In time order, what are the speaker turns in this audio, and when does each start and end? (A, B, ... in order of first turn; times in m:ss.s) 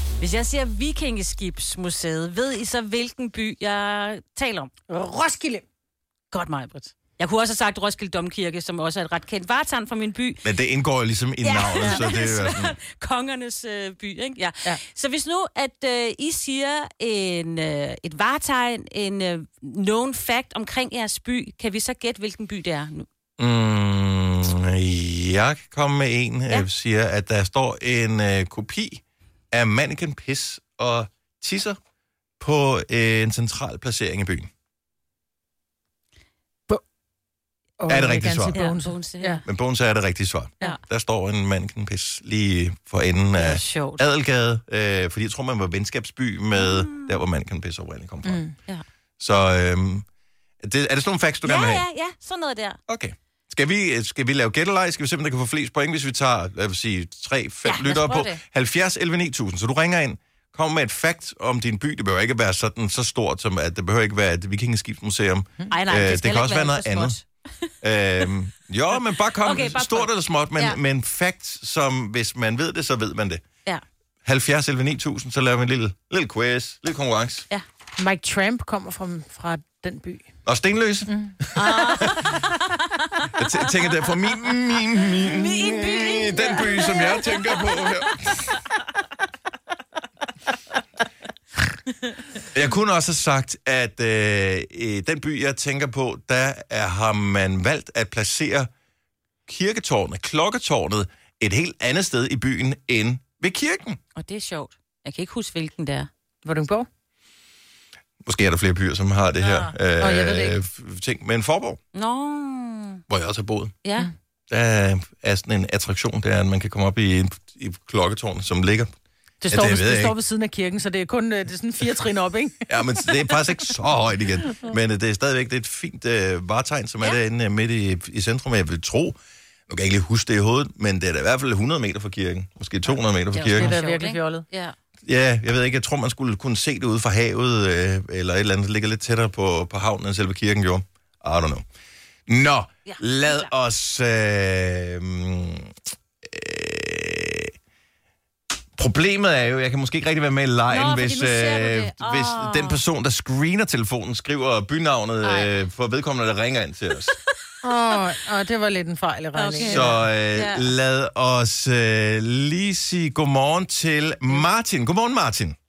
0:00.2-0:04.7 A
0:04.9-0:05.6 B
0:06.3-0:10.5 A
0:10.4-0:12.7 C
0:11.4-0:23.0 A
0:23.4-0:31.8 C
0:32.4-0:34.5 C
0:37.8-0:39.4 B
0:37.9-0:38.6 C
0:38.5-0:39.4 A
0:39.4-0:48.4 C
0:43.4-0:44.0 A
0:46.6-0:47.2 A
0:48.2-0:48.6 B
0:49.2-0:50.0 C
0:50.6-0:51.8 C
0:51.4-0:52.8 A
0:52.9-1:07.2 C
0:57.6-0:58.4 A
1:05.7-1:07.7 A
1:07.8-1:13.4 C
1:09.4-1:10.8 A
1:14.2-1:17.5 C
1:18.0-1:20.3 B
1:20.4-1:22.3 C
1:21.1-1:21.3 B
1:21.6-1:23.5 A
1:23.3-1:28.6 C
1:25.0-1:28.3 A
1:32.5-1:38.7 C
1:39.5-1:44.0 C
1:44.1-1:46.1 A
1:46.4-1:46.9 B
1:48.2-1:51.8 C
1:49.4-1:50.6 B
1:51.9-1:53.0 A
1:53.1-1:53.8 C
1:53.8-1:54.1 A
1:54.5-1:58.9 C
1:59.4-2:03.8 B
1:59.5-2:00.2 C
2:02.7-2:09.2 C
2:09.7-2:13.8 C
2:13.3-2:14.8 A
2:13.5-2:14.4 B
2:15.0-2:21.6 C
2:22.3-2:27.5 C
2:22.8-2:23.5 A
2:28.8-2:37.2 C
2:30.7-2:32.8 A
2:37.6-2:40.0 B
2:39.3-2:40.7 A
2:39.7-2:45.6 C